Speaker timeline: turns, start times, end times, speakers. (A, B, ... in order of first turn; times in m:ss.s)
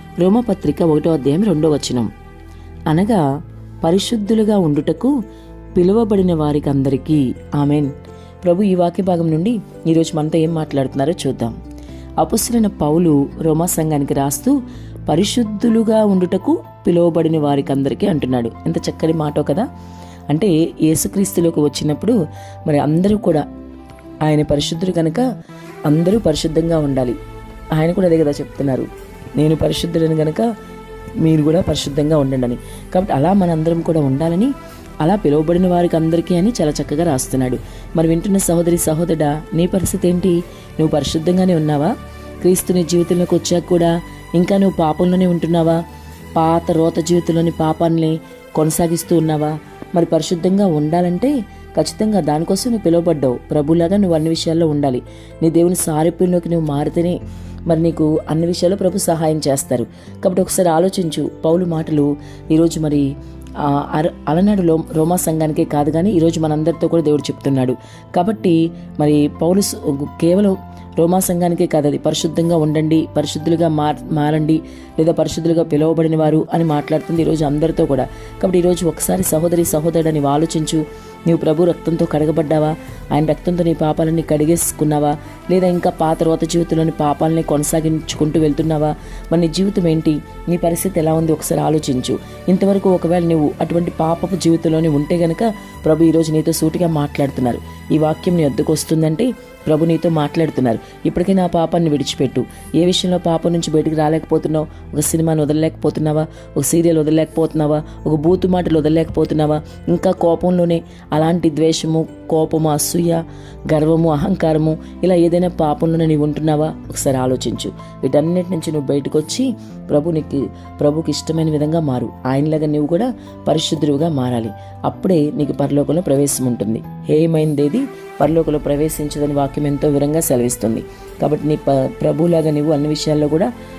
0:00.2-0:02.1 A
0:02.9-0:03.2 A
0:03.8-0:05.1 A
0:05.8-0:07.9 A
0:08.4-0:11.6 A
0:12.2-0:14.6 A
0:15.1-0:19.7 A
0:20.3-0:23.5 A
0:24.3-0:25.2 A
0:25.9-0:27.2 A
0:27.8-0:30.5 A
0:31.2-0:34.5 A
0:35.0-0:41.9 A
0:42.4-0:45.8 A
0:46.4-0:57.2 A
0:57.7-1:03.1 A
1:03.6-2:13.5 A